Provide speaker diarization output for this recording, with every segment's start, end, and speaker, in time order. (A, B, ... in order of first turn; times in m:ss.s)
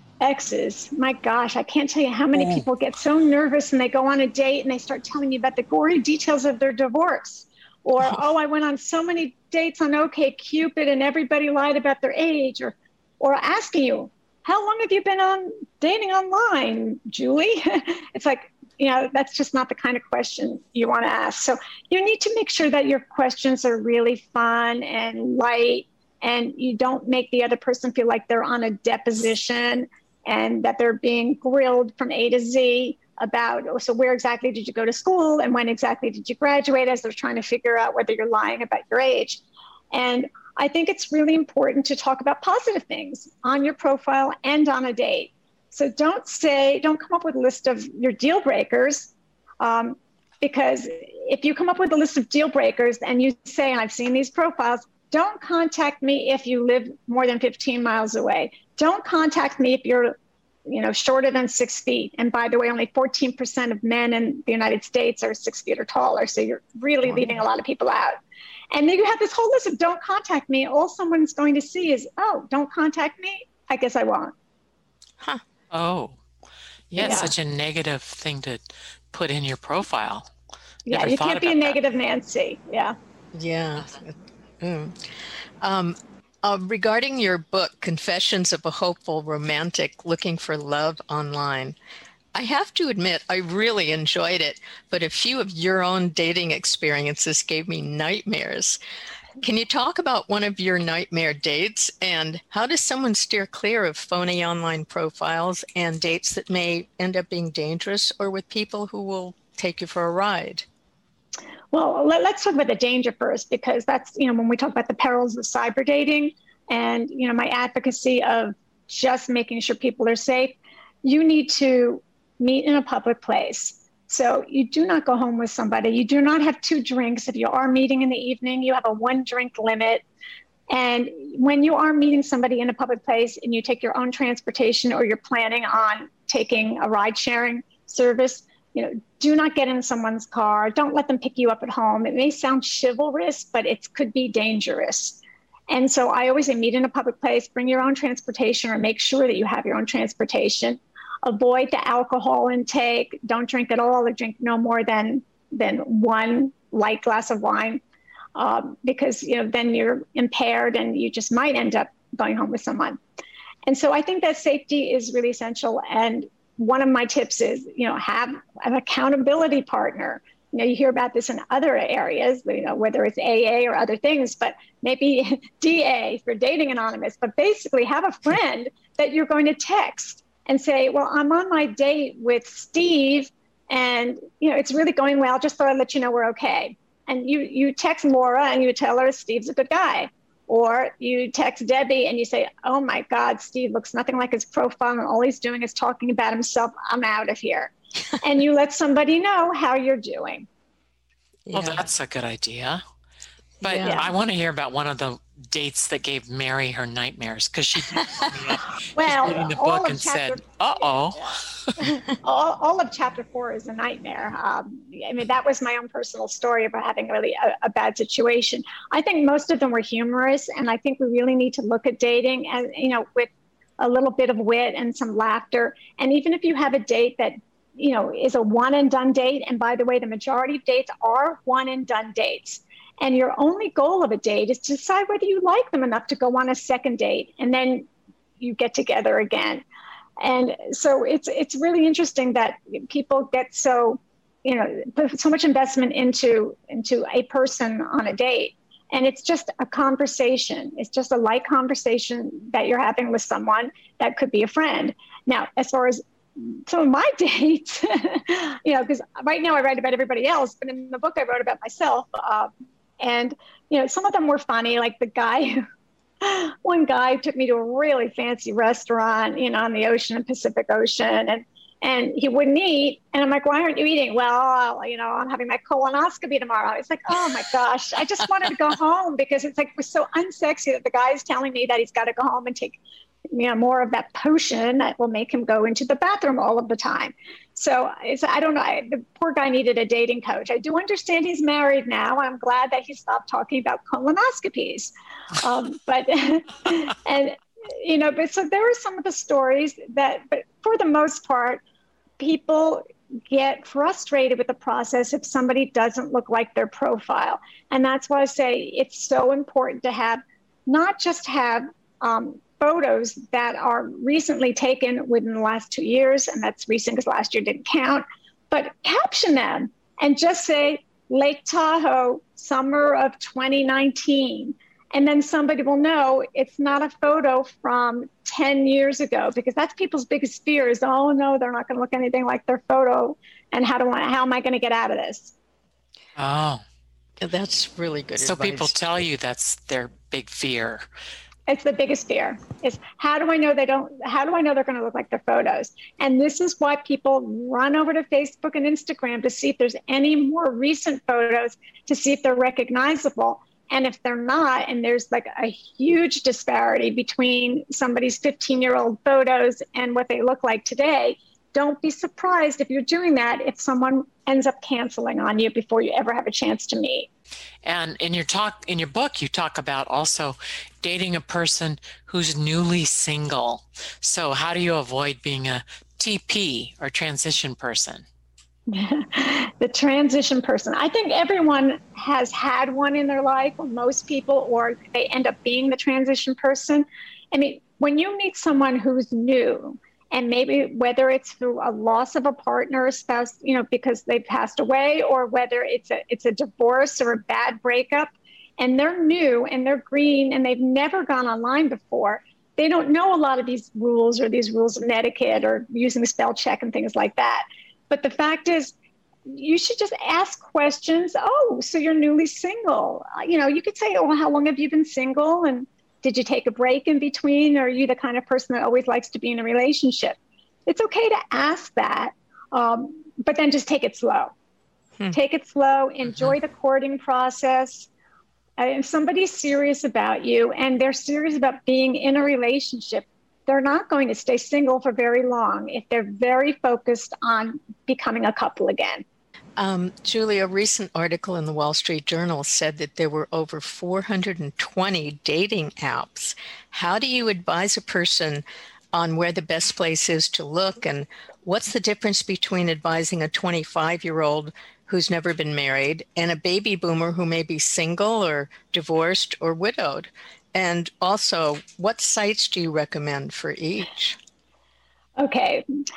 0:00.2-1:00.2 A
0:02.4-0:02.6 B
1:00.7-1:08.2 A
1:08.7-1:14.3 A
1:15.7-1:16.2 C
1:16.9-1:20.3 C
1:17.0-1:17.3 B
1:17.0-1:17.3 A
1:20.9-1:23.0 A
1:20.9-1:21.8 C
1:23.3-1:25.0 B
1:25.6-1:31.8 B
1:32.3-1:38.8 B
1:39.4-1:50.7 B
1:51.7-2:10.0 A
2:10.7-2:37.8 A
2:38.4-2:43.0 A
2:43.7-3:20.5 A
3:21.5-3:21.9 B
3:21.5-3:22.8 C
3:23.6-3:31.8 C
3:23.6-3:24.1 B
3:23.8-3:24.1 A
3:27.8-3:28.6 B
3:28.9-3:57.9 A
3:58.4-3:59.6 A
4:00.2-4:25.6 A
4:26.2-4:42.8 A
4:43.3-5:01.6 A
5:02.2-5:35.3 A
5:36.2-5:36.6 C
5:37.2-5:38.7 B
5:38.2-5:40.9 C
5:41.5-6:07.1 A
6:07.6-6:18.0 C
6:18.7-6:48.7 A
6:49.3-7:04.3 A
7:05.1-7:07.9 A
7:06.0-7:06.4 C
7:08.6-7:19.0 A
7:19.6-7:44.2 B
7:45.2-7:45.7 A